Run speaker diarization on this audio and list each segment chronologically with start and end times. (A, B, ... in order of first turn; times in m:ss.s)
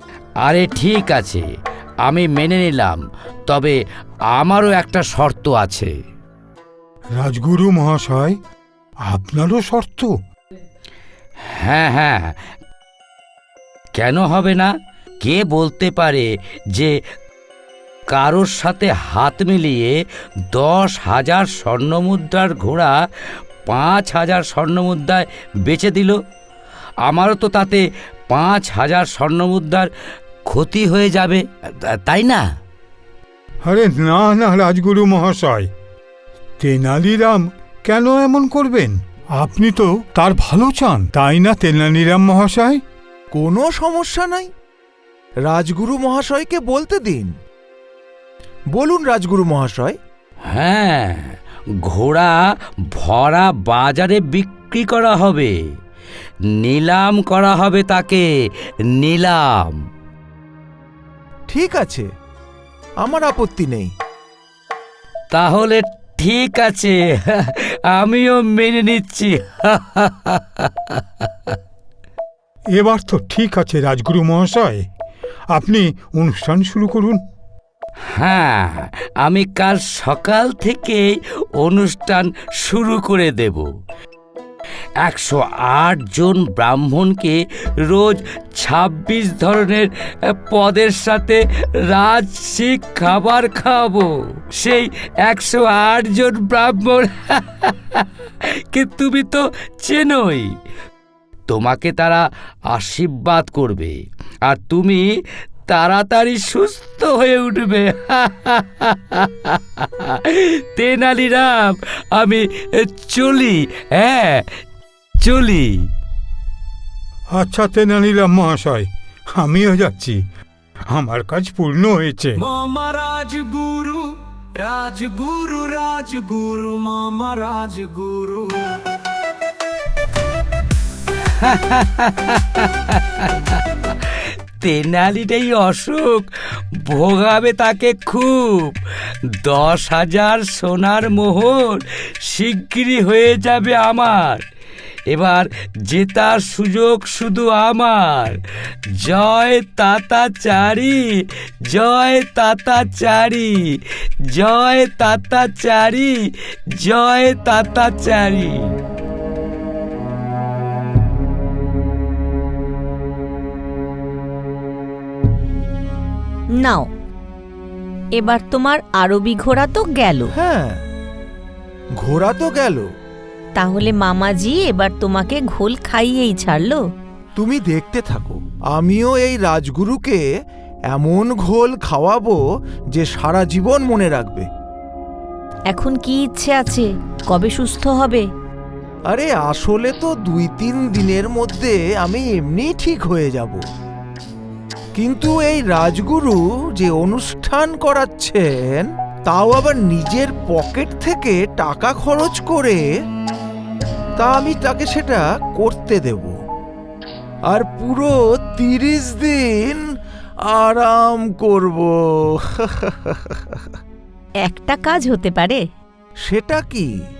0:00.4-0:01.5 A
0:02.0-0:03.8 A
0:04.3-0:05.9 A
0:07.2-0:08.4 B
0:09.1-0:10.1 B
0:11.4-0:12.4 A
0:14.0-0:14.7 A
0:15.2-0:17.0 A
0:18.1-0:20.0 A
0:20.5-0:23.0 A
0:23.7-0:26.2 A
0:27.0-0:29.9 A
0:30.5-0:32.5 A
0:33.6-0:35.7 B
0:36.6-0:42.8 B
0:43.3-0:44.5 C
0:45.5-0:47.3 C
0:48.7-0:50.0 C
0:50.5-0:55.6 A
0:56.6-0:58.3 A
0:59.0-0:59.8 A
1:01.5-1:02.1 C
1:03.0-1:03.9 C
1:05.3-1:11.6 A
1:12.8-1:14.8 B
1:15.5-1:17.2 B
1:18.1-1:23.7 A
1:25.0-1:38.1 A
1:38.7-1:40.5 A
1:41.5-1:45.0 A
1:45.7-1:54.5 A
1:55.2-1:55.9 A
1:57.3-2:00.2 B
2:00.9-2:02.4 B
2:02.5-2:04.0 D
2:04.6-2:08.5 D
2:11.2-2:16.3 A
2:16.8-2:18.8 A
2:19.4-2:24.4 A
2:25.1-2:28.4 A
2:29.0-2:33.8 A
2:34.3-2:36.2 A
2:36.8-2:38.7 A
2:46.5-2:46.9 E
2:48.2-2:50.3 E
2:50.4-2:50.8 C
2:52.0-2:52.9 C
2:53.6-2:56.8 E
2:57.4-3:00.2 C
3:00.9-3:02.4 C
3:02.9-3:04.5 C
3:05.7-3:08.3 E
3:09.1-3:13.6 C
3:15.0-3:22.9 C
3:24.2-3:26.4 C
3:27.5-3:29.9 C
3:30.5-3:33.6 C
3:34.4-3:35.6 E
3:36.2-3:36.9 C